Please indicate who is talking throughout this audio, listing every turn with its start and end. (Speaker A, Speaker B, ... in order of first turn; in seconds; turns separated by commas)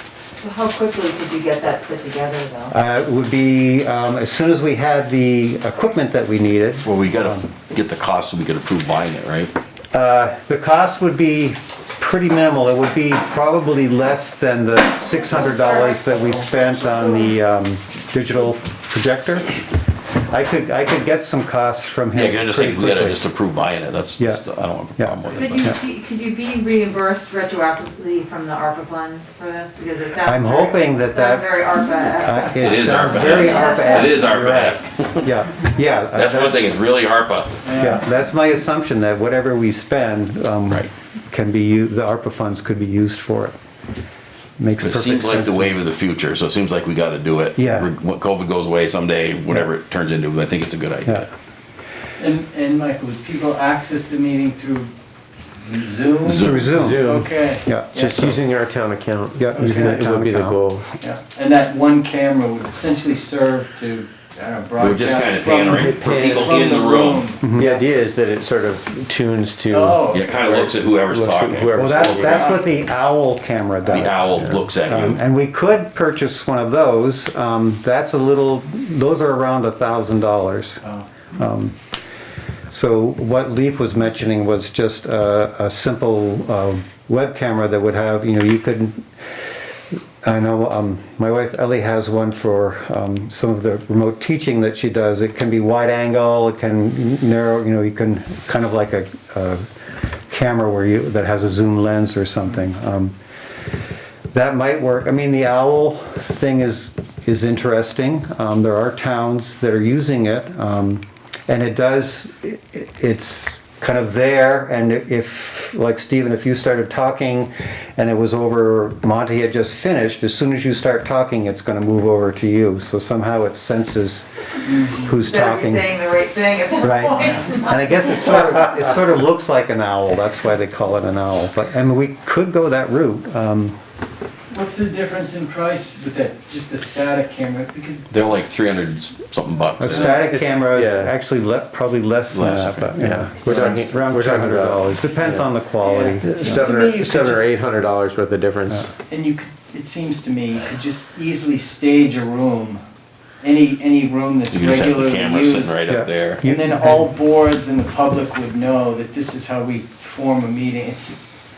Speaker A: 0.4-2.7, Speaker B: 2.7-7.5, Speaker C: 6.8-9.5, Speaker B: 9.9-19.6, Speaker A: 15.3-17.3, Speaker B: 20.3-23.2, Speaker C: 22.1-25.8, Speaker B: 24.2-24.4, Speaker B: 25.0-25.7, Speaker A: 25.3-34.3, Speaker B: 30.2-31.4, Speaker B: 32.2-36.7, Speaker C: 32.6-35.3, Speaker C: 36.1-37.5, Speaker D: 37.6-38.0, Speaker B: 37.8-43.5, Speaker B: 44.6-45.7, Speaker C: 44.8-51.3, Speaker B: 47.5-47.9, Speaker D: 52.2-54.9, Speaker D: 55.6-58.3, Speaker C: 56.2-56.8, Speaker B: 56.3-57.1, Speaker E: 56.7-57.4, Speaker B: 57.6-58.0, Speaker E: 58.0-60.9, Speaker B: 59.4-60.6, Speaker D: 59.5-60.1, Speaker D: 61.0-67.5, Speaker C: 64.8-67.4, Speaker E: 65.7-66.7, Speaker B: 67.4-67.8, Speaker E: 67.5-72.5, Speaker D: 69.7-70.4, Speaker C: 70.1-72.6, Speaker B: 71.8-80.8, Speaker C: 73.9-75.2, Speaker B: 81.3-81.8, Speaker B: 82.7-89.1, Speaker B: 90.2-103.1, Speaker B: 104.3-124.2, Speaker D: 124.7-125.1, Speaker B: 124.9-125.9, Speaker A: 125.2-128.1, Speaker B: 126.8-133.8, Speaker D: 134.5-138.1, Speaker C: 138.1-140.3, Speaker B: 139.8-146.7, Speaker D: 139.9-140.3, Speaker E: 140.3-141.2, Speaker C: 142.3-142.9, Speaker E: 142.9-145.6, Speaker D: 143.4-144.0, Speaker D: 145.8-147.4, Speaker E: 146.2-148.9, Speaker D: 149.1-152.8, Speaker D: 153.4-155.8, Speaker C: 154.5-156.4, Speaker B: 155.9-157.1, Speaker D: 156.4-161.2